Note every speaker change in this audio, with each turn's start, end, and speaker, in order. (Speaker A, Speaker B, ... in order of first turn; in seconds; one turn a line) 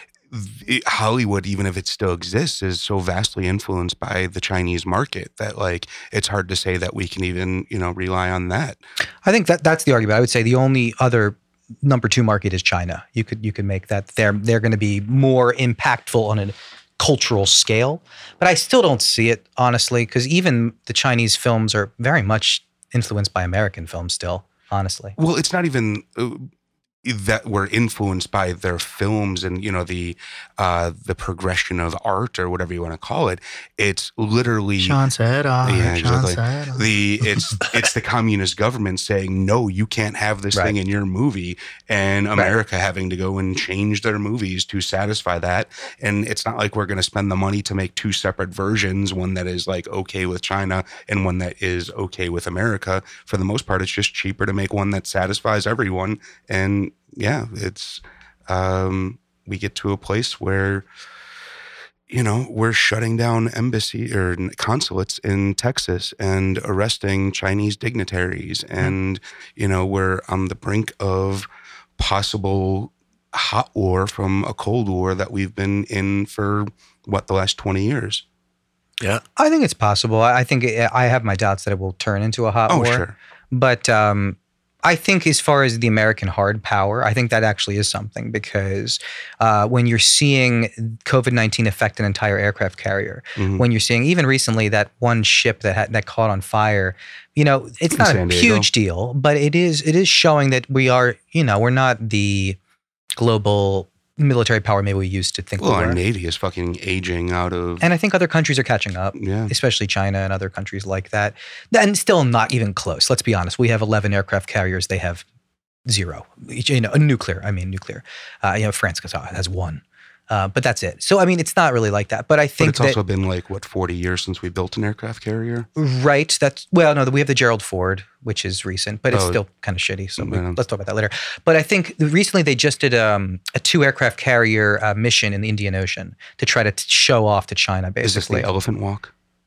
Speaker A: 0.3-8.8
Speaker B: 9.2-25.1
Speaker A: 25.2-26.5
Speaker A: 27.0-35.0
Speaker C: 34.8-36.9
Speaker A: 35.6-60.9
Speaker A: 62.1-71.5
Speaker A: 72.0-78.2
Speaker B: 79.4-102.6
Speaker A: 82.7-83.2
Speaker A: 93.4-93.6
Speaker A: 97.9-98.7
Speaker B: 103.2-106.0
Speaker A: 105.6-107.8
Speaker B: 107.8-115.2
Speaker A: 109.1-109.5
Speaker B: 115.9-123.0
Speaker A: 122.6-125.7
Speaker B: 125.8-138.5
Speaker A: 129.1-129.4
Speaker A: 130.2-130.6
Speaker A: 138.0-139.1